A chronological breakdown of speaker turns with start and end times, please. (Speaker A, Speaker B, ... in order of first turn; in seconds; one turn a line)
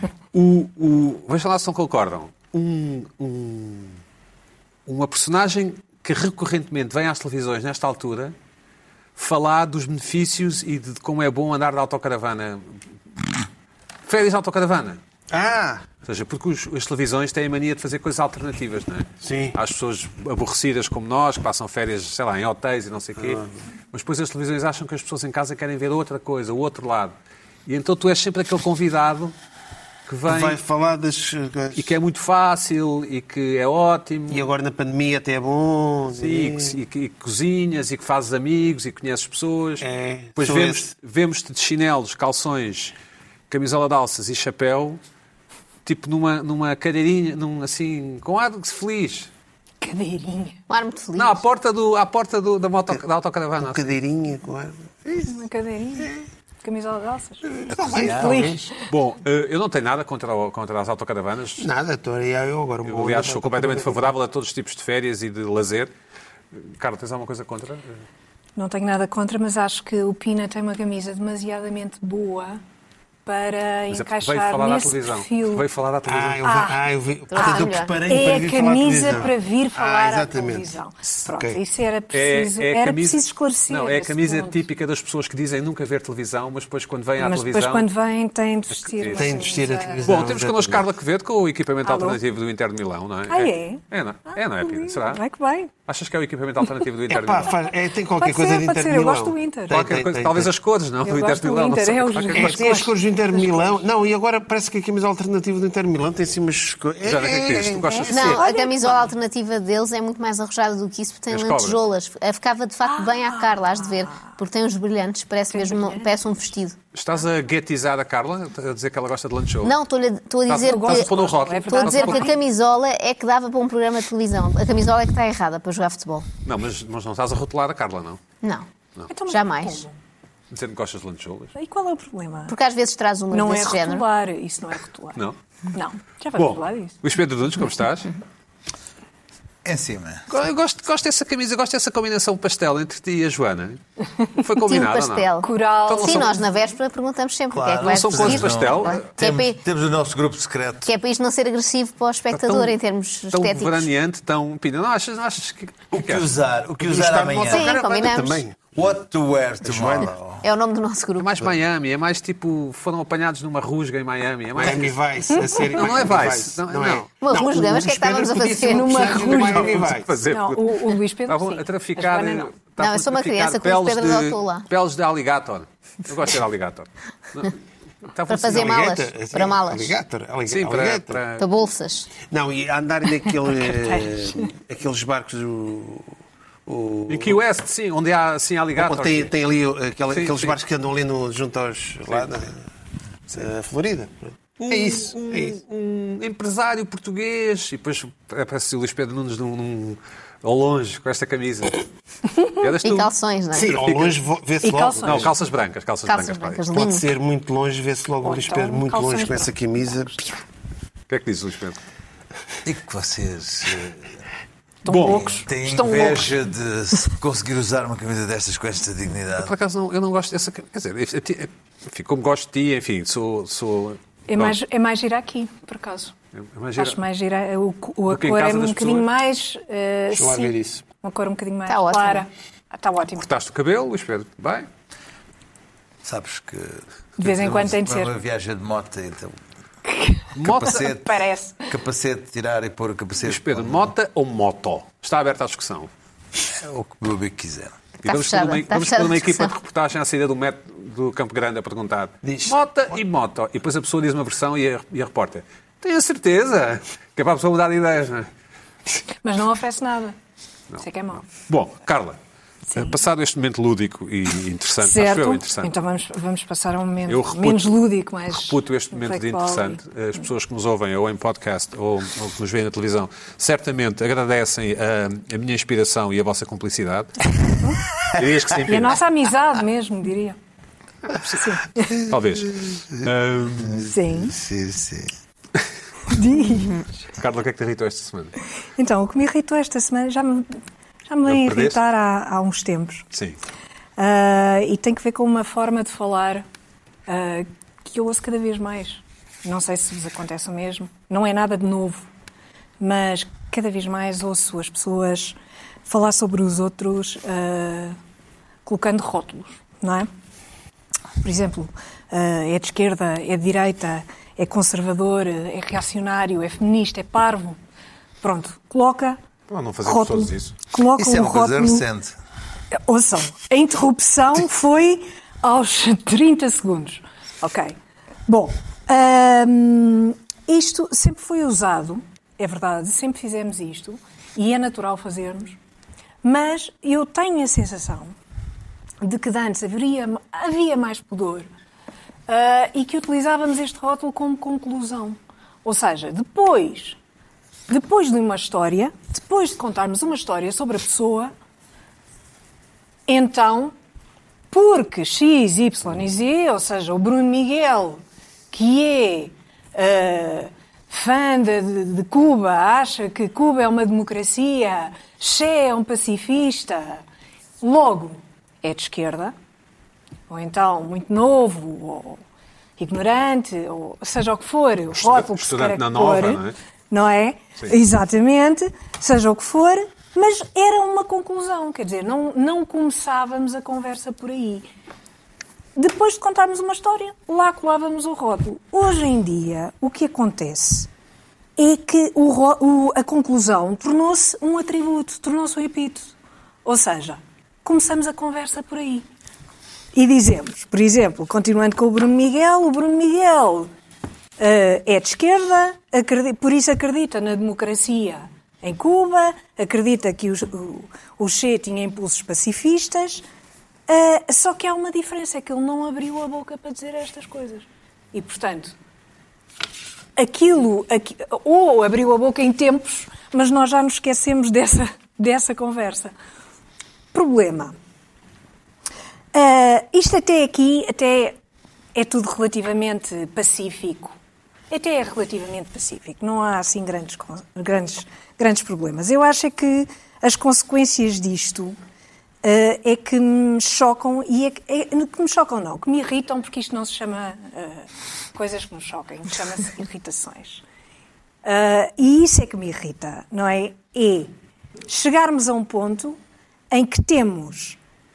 Speaker A: 0.3-2.3
Speaker B: 2.5-3.9
Speaker A: 4.9-8.3
Speaker A: 9.2-12.8
Speaker A: 14.1-15.0
Speaker B: 15.3-15.8
Speaker A: 16.0-27.1
Speaker B: 19.2-19.6
Speaker B: 23.2-23.5
Speaker A: 27.6-29.3
Speaker A: 30.1-30.6
Speaker B: 30.2-31.9
Speaker A: 31.7-34.5
Speaker B: 34.3-36.8
Speaker A: 36.1-42.9
Speaker B: 39.8-40.9
Speaker A: 43.5-45.0
Speaker A: 45.8-49.3
Speaker C: 49.8-50.5
Speaker D: 50.7-51.4
Speaker A: 51.1-53.9
Speaker B: 53.6-55.3
Speaker C: 55.3-57.4
Speaker B: 57.5-58.7
Speaker E: 57.7-58.5
Speaker C: 58.0-58.6
Speaker A: 58.9-61.7
Speaker B: 61.6-64.0
Speaker A: 62.8-65.9
Speaker A: 66.5-68.0
Speaker C: 68.5-72.6
Speaker C: 73.2-75.6
Speaker A: 73.9-76.4
Speaker B: 76.1-80.7
Speaker C: 76.4-76.8
Speaker D: 77.3-78.0
Speaker C: 77.4-84.6
Speaker B: 81.2-81.6
Speaker A: 82.1-87.9
Speaker C: 87.2-90.1
Speaker A: 88.7-95.2
Speaker B: 89.2-90.9
Speaker C: 91.8-92.2
Speaker C: 93.3-95.7
Speaker A: 95.8-97.5
Speaker B: 97.1-100.5
Speaker C: 98.2-99.7
Speaker A: 99.7-102.6
Speaker C: 101.0-103.8
Speaker B: 102.4-108.4
Speaker A: 107.0-108.4
Speaker C: 107.9-109.1
Speaker D: 108.1-116.8
Speaker A: 111.3-111.8
Speaker C: 112.8-114.3
Speaker C: 115.5-116.1
Speaker A: 116.9-119.7
Speaker D: 119.6-121.1
Speaker A: 120.5-122.3
Speaker C: 120.6-122.4
Speaker D: 121.7-126.3
Speaker A: 126.4-128.2
Speaker C: 129.1-129.9
Speaker D: 129.3-129.8
Speaker A: 130.5-131.5
Speaker C: 131.6-132.5
Speaker D: 132.5-134.0
Speaker C: 133.3-135.2
Speaker C: 135.7-137.0
Speaker A: 136.3-138.1
Speaker E: 139.6-140.3
Speaker A: 140.3-143.8
Speaker A: 144.3-145.3
Speaker D: 144.6-149.6
Speaker C: 145.4-146.4
Speaker A: 145.8-146.3
Speaker E: 147.5-150.9
Speaker A: 147.8-149.1
Speaker D: 150.8-153.9
Speaker A: 152.3-152.8
Speaker A: 153.3-156.2
Speaker E: 155.9-157.7
Speaker B: 156.8-158.6
Speaker D: 157.5-158.4
Speaker E: 158.7-160.4
Speaker B: 159.6-160.1
Speaker D: 160.4-161.4
Speaker A: 161.2-164.9
Speaker B: 164.5-170.2
Speaker C: 165.3-165.8
Speaker A: 165.7-167.1
Speaker D: 167.2-169.2
Speaker C: 168.6-169.8
Speaker A: 169.2-178.8
Speaker C: 170.3-172.5
Speaker D: 172.8-174.7
Speaker D: 178.3-179.9
Speaker B: 178.5-181.2
Speaker A: 180.5-181.4
Speaker D: 181.4-182.1
Speaker B: 182.3-186.1
Speaker C: 183.7-184.1
Speaker B: 186.7-187.4
Speaker A: 187.1-189.3
Speaker B: 188.8-192.5
Speaker A: 190.1-190.6
Speaker A: 192.1-192.4
Speaker B: 193.3-195.6
Speaker A: 194.7-201.8
Speaker A: 202.5-203.1
Speaker D: 202.8-203.8
Speaker B: 203.5-205.3
Speaker A: 203.7-204.2
Speaker C: 204.6-205.3
Speaker A: 205.0-206.7
Speaker D: 206.1-207.1
Speaker B: 206.7-210.3
Speaker C: 208.2-210.1
Speaker A: 211.1-211.8
Speaker E: 212.6-214.1
Speaker C: 214.8-216.3
Speaker A: 214.9-215.2
Speaker E: 215.0-219.5
Speaker A: 219.3-224.6
Speaker C: 224.3-226.1
Speaker A: 226.3-227.0
Speaker C: 226.8-233.2
Speaker A: 228.1-229.1
Speaker B: 230.1-230.8
Speaker D: 231.7-232.2
Speaker A: 233.1-234.7
Speaker E: 236.0-239.4
Speaker C: 237.2-238.1
Speaker C: 239.9-241.6
Speaker A: 240.3-240.8
Speaker E: 240.4-243.9
Speaker A: 243.2-245.9
Speaker E: 246.5-247.8
Speaker A: 248.0-258.3
Speaker D: 248.1-249.5
Speaker B: 252.2-252.6
Speaker C: 259.2-260.1
Speaker A: 260.7-262.2
Speaker C: 260.8-261.3
Speaker A: 262.7-265.7
Speaker C: 264.8-269.8
Speaker A: 267.1-277.3
Speaker C: 277.6-278.1
Speaker A: 278.1-279.0
Speaker C: 278.7-280.4
Speaker A: 281.1-281.4
Speaker C: 281.2-282.1
Speaker A: 282.0-283.9
Speaker C: 283.8-284.4
Speaker E: 284.3-285.1
Speaker C: 286.1-286.8
Speaker A: 287.2-288.4
Speaker C: 288.8-290.6
Speaker C: 291.1-293.1
Speaker A: 291.2-291.8
Speaker A: 293.1-293.4
Speaker C: 294.0-296.4
Speaker C: 297.1-302.1
Speaker C: 302.8-308.0
Speaker C: 308.6-310.1
Speaker C: 311.2-317.6
Speaker C: 318.2-319.2
Speaker A: 319.5-320.6
Speaker C: 319.8-321.8
Speaker E: 320.9-322.1
Speaker C: 322.7-327.8
Speaker C: 328.3-335.6
Speaker C: 336.2-338.1
Speaker C: 339.0-341.5
Speaker C: 342.3-347.0
Speaker C: 347.7-351.3
Speaker C: 353.1-353.7
Speaker C: 354.5-367.0
Speaker C: 367.6-369.3
Speaker C: 370.3-372.2
Speaker C: 372.8-384.7
Speaker A: 374.9-376.6
Speaker C: 385.8-390.9
Speaker C: 391.6-396.1
Speaker C: 396.6-399.1
Speaker C: 399.9-403.7
Speaker C: 404.4-413.2
Speaker C: 413.9-418.7
Speaker C: 420.2-426.1
Speaker C: 427.1-427.8
Speaker C: 429.3-431.4
Speaker C: 431.9-434.1
Speaker C: 434.7-441.8
Speaker C: 442.4-450.6
Speaker C: 451.4-454.3
Speaker C: 454.9-456.2
Speaker C: 456.7-457.8